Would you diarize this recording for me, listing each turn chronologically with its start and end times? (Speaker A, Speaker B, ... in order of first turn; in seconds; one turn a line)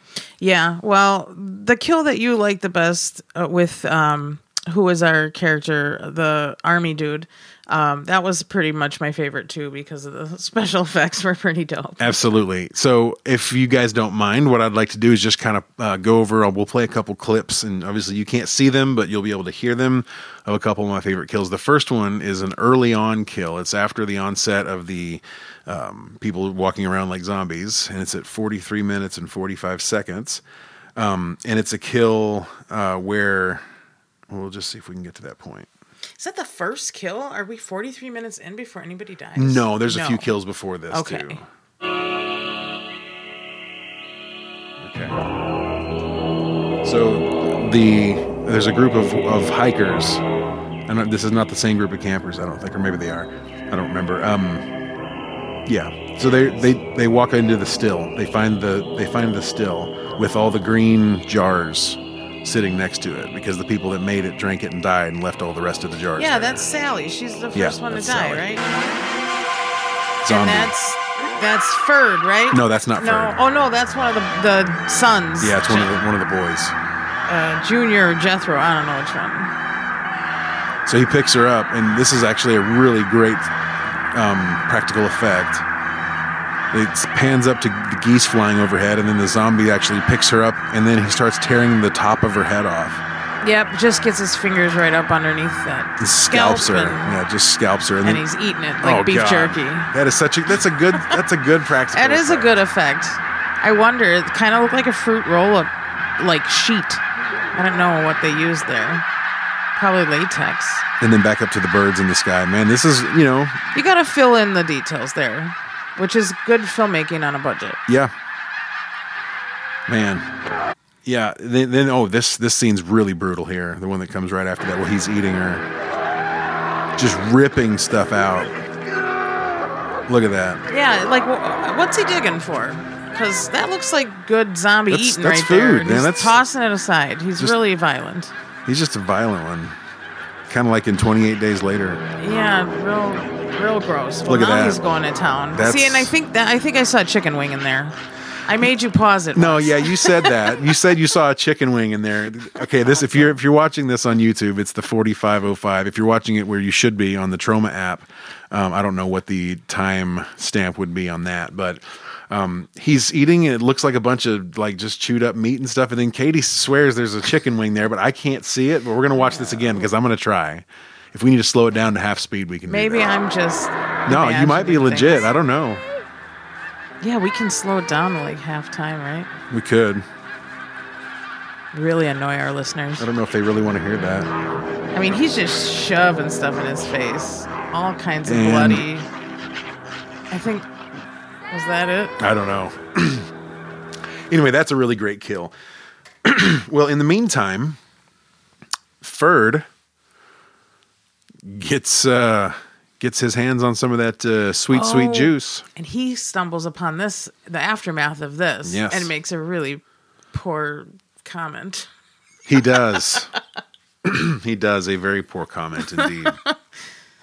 Speaker A: 0.4-12.2
Speaker B: 12.0-30.4
Speaker B: 31.0-33.6
Speaker B: 34.3-35.7
Speaker A: 36.2-40.3
Speaker B: 39.4-41.5
Speaker A: 40.9-41.4
Speaker B: 44.8-45.2
Speaker B: 46.8-50.2
Speaker B: 50.9-54.7
Speaker B: 55.7-66.6
Speaker A: 66.2-68.7
Speaker B: 67.5-68.5
Speaker B: 70.2-70.7
Speaker A: 70.3-75.9
Speaker B: 72.5-73.4
Speaker B: 75.4-76.8
Speaker A: 77.3-79.5
Speaker B: 80.9-83.5
Speaker B: 84.1-85.7
Speaker B: 86.7-93.0
Speaker A: 93.4-97.1
Speaker B: 96.0-98.2
Speaker A: 98.0-99.9
Speaker B: 98.8-102.6
Speaker A: 101.9-107.0
Speaker A: 107.5-109.0
Speaker A: 109.8-110.8
Speaker B: 111.0-113.6
Speaker A: 113.7-117.8
Speaker B: 117.9-118.1
Speaker B: 119.9-120.3
Speaker B: 121.0-125.7
Speaker B: 127.0-128.5
Speaker B: 130.1-130.7
Speaker A: 130.7-138.3
Speaker B: 134.9-136.4
Speaker B: 138.7-139.8
Speaker B: 140.5-142.0
Speaker A: 142.2-150.3
Speaker B: 144.3-144.8
Speaker B: 145.5-146.1
Speaker B: 149.3-173.1
Speaker A: 169.2-169.9
Speaker A: 172.7-175.3
Speaker B: 174.1-175.8
Speaker A: 177.0-179.3
Speaker B: 179.5-180.1
Speaker A: 181.7-183.1
Speaker B: 183.0-184.3
Speaker A: 184.9-189.1
Speaker B: 188.2-188.9
Speaker A: 190.3-190.7
Speaker A: 191.5-192.2
Speaker B: 192.2-193.3
Speaker B: 194.3-195.5
Speaker B: 196.2-197.8
Speaker B: 199.0-199.7
Speaker B: 201.4-205.7
Speaker A: 204.7-211.9
Speaker B: 208.7-209.1
Speaker B: 212.5-213.3
Speaker B: 214.0-216.4